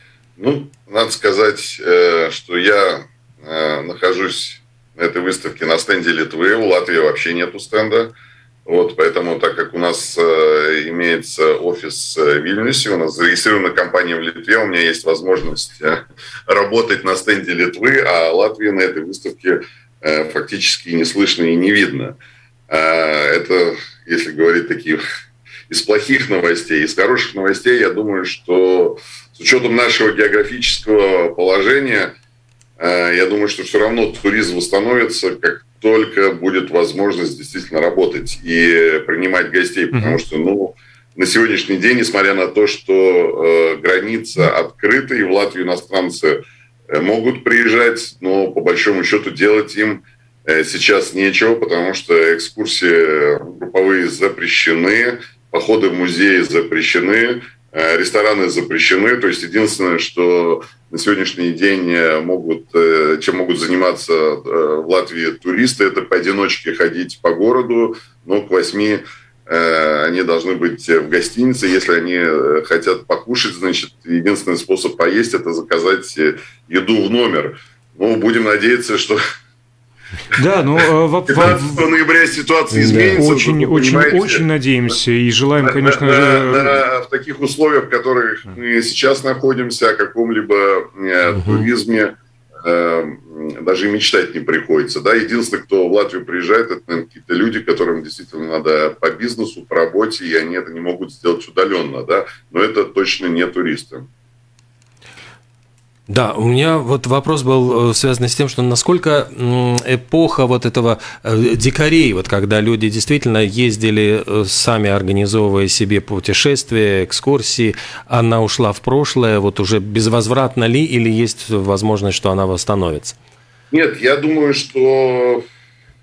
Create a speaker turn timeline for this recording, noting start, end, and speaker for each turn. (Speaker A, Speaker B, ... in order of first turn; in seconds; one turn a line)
Speaker A: 0.4-8.1
Speaker A: 8.7-22.2
Speaker A: 22.7-25.0
Speaker A: 25.7-32.1
Speaker A: 32.8-46.4
Speaker B: 39.9-40.2
Speaker A: 46.9-79.2
Speaker B: 80.3-81.9
Speaker A: 81.3-84.4
Speaker C: 82.7-83.2
Speaker B: 83.0-86.8
Speaker A: 85.6-104.0
Speaker C: 91.3-91.7
Speaker C: 106.1-123.2
Speaker A: 123.7-125.4